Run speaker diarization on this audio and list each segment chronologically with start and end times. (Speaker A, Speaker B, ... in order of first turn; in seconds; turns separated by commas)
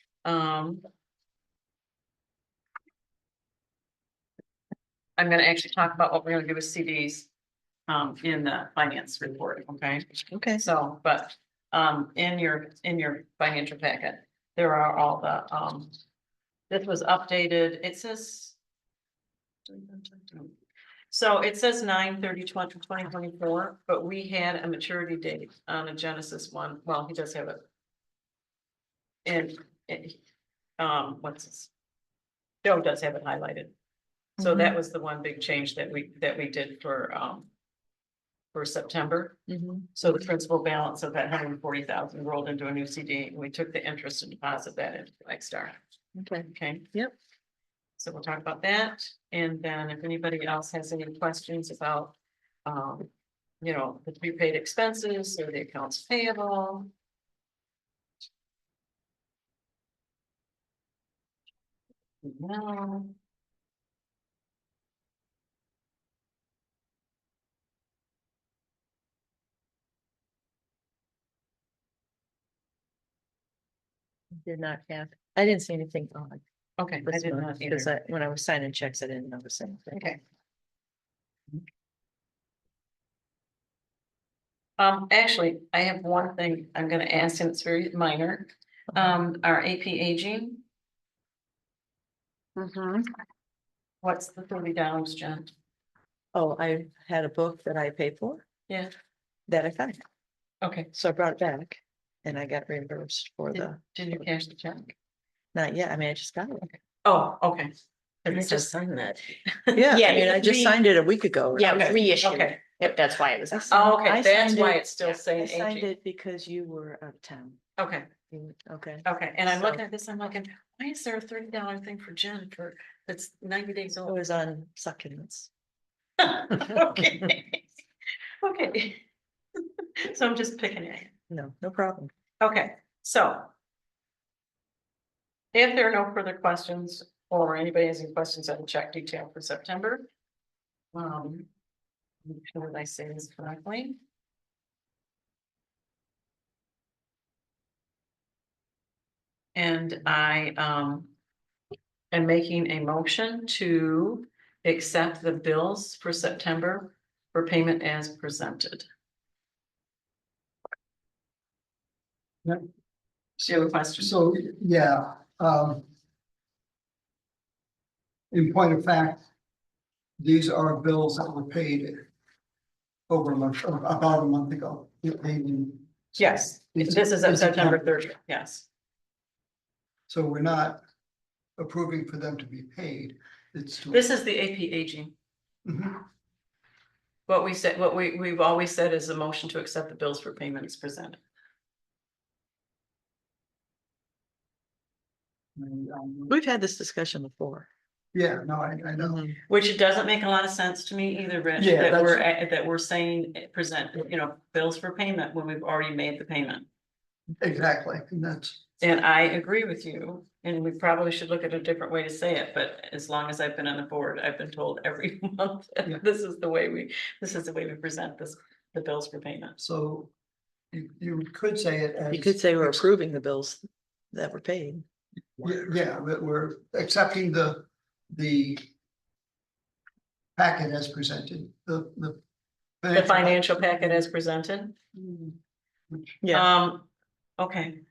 Speaker A: 0.2-0.8, Speaker A: 5.2-7.3, Speaker A: 7.9-15.9, Speaker B: 10.3-10.7, Speaker A: 16.7-18.6, Speaker A: 19.6-20.5, Speaker A: 21.1-27.6, Speaker A: 29.2-30.2, Speaker A: 30.8-31.7, Speaker A: 32.6-33.7, Speaker B: 34.4-34.8, Speaker A: 34.4-37.5, Speaker A: 38.5-39.4, Speaker B: 39.5-39.9, Speaker A: 39.9-45.8, Speaker B: 46.1-47.1, Speaker A: 46.5-46.9, Speaker A: 48.0-53.1, Speaker A: 53.6-56.9, Speaker A: 62.2-63.1, Speaker B: 74.3-76.4, Speaker A: 76.8-77.9, Speaker B: 77.0-80.2, Speaker A: 79.9-80.2, Speaker A: 84.8-90.6, Speaker A: 94.0-95.5, Speaker B: 96.3-98.4, Speaker B: 99.5-100.0, Speaker A: 100.6-100.9, Speaker B: 100.9-104.2, Speaker A: 103.5-104.9, Speaker B: 105.5-106.7, Speaker A: 107.0-107.7, Speaker A: 108.2-110.4, Speaker B: 109.7-112.0, Speaker C: 109.9-110.8, Speaker C: 111.5-113.7, Speaker A: 111.6-113.0, Speaker B: 113.5-117.6, Speaker A: 113.7-115.9, Speaker A: 117.8-118.1, Speaker B: 118.3-119.8, Speaker A: 119.0-124.2, Speaker B: 124.0-125.5, Speaker A: 126.2-127.7, Speaker A: 128.4-129.0, Speaker A: 129.6-131.1, Speaker B: 131.3-132.1, Speaker A: 132.4-133.5, Speaker A: 135.5-140.1, Speaker A: 140.9-141.5, Speaker A: 142.2-144.0, Speaker A: 149.5-151.1, Speaker A: 152.1-158.9, Speaker A: 163.4-164.2, Speaker D: 164.0-165.9, Speaker D: 168.3-169.2, Speaker D: 170.2-172.1, Speaker D: 173.1-177.9, Speaker A: 176.2-178.7, Speaker D: 180.1-180.8, Speaker D: 181.6-184.1, Speaker A: 183.9-185.1, Speaker D: 185.6-186.0, Speaker A: 187.3-191.2, Speaker D: 195.6-196.3, Speaker B: 196.3-197.7, Speaker D: 198.1-199.2, Speaker B: 199.0-199.4, Speaker A: 199.5-206.7, Speaker D: 201.6-202.3, Speaker D: 207.4-208.6, Speaker A: 208.8-219.6, Speaker D: 219.6-220.1, Speaker D: 220.7-222.9, Speaker B: 222.1-224.8, Speaker D: 225.4-228.7, Speaker D: 230.4-232.2, Speaker D: 232.8-234.0, Speaker A: 232.9-234.8, Speaker D: 234.9-235.3, Speaker D: 235.9-236.2, Speaker B: 236.2-236.5, Speaker A: 236.3-237.8